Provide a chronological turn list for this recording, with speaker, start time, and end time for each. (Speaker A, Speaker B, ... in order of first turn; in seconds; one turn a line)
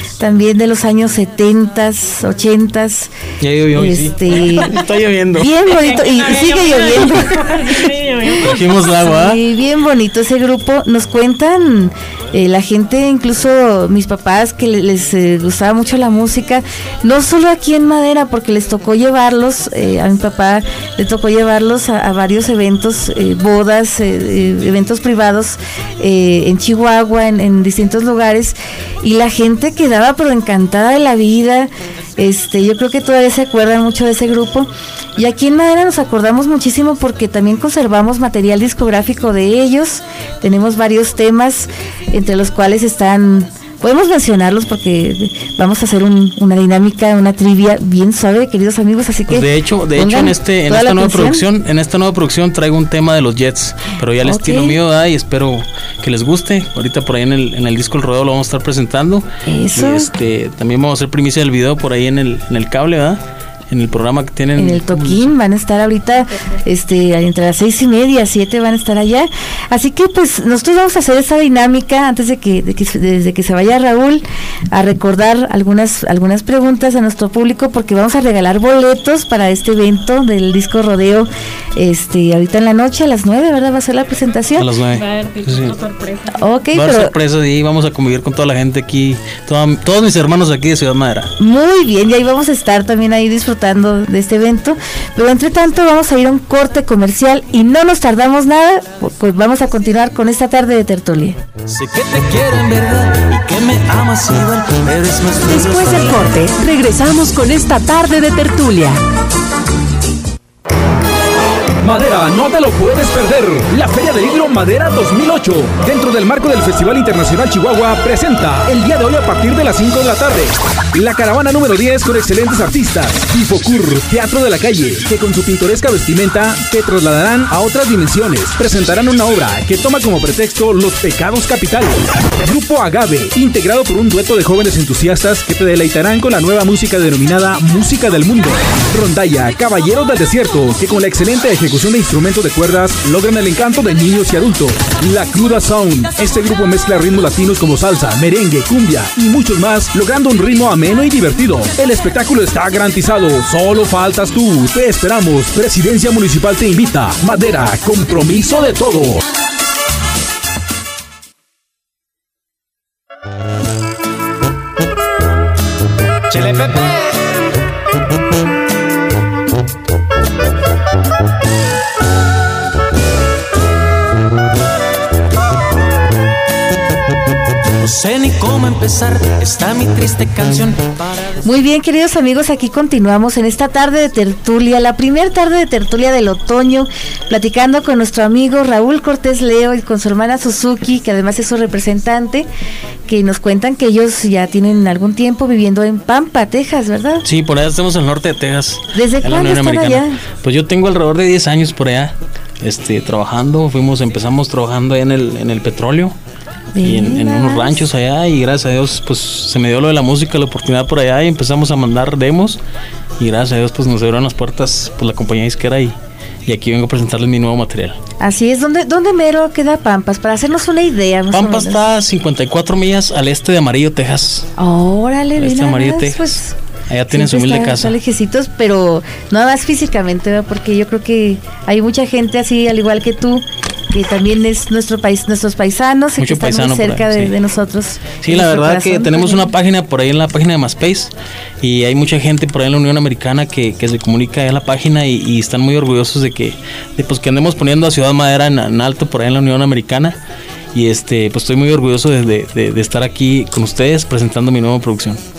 Speaker A: 0.2-3.1
Speaker B: 3.4-5.5
Speaker A: 3.7-4.7
Speaker A: 5.3-7.5
Speaker C: 5.6-8.6
Speaker B: 8.3-9.4
Speaker A: 9.0-51.4
Speaker B: 49.3-65.3
Speaker A: 54.2-54.8
Speaker A: 59.5-60.1
Speaker A: 64.6-84.7
Speaker B: 84.6-85.8
Speaker C: 84.9-86.4
Speaker A: 86.3-87.1
Speaker B: 86.7-91.3
Speaker A: 91.4-101.4
Speaker D: 101.7-106.2
Speaker E: 105.5-109.0
Speaker F: 111.8-159.2
Speaker D: 177.8-181.3
Speaker A: 181.4-192.5
Speaker A: 193.1-197.2
Speaker B: 197.2-206.2
Speaker A: 198.9-200.2
Speaker A: 206.7-207.8
Speaker B: 206.8-212.6
Speaker B: 213.2-218.0
Speaker A: 218.2-221.8
Speaker B: 221.3-224.5
Speaker A: 224.6-226.6
Speaker B: 225.4-228.0
Speaker A: 227.1-239.5
Speaker B: 236.2-237.4
Speaker B: 238.2-250.2
Speaker B: 250.7-255.2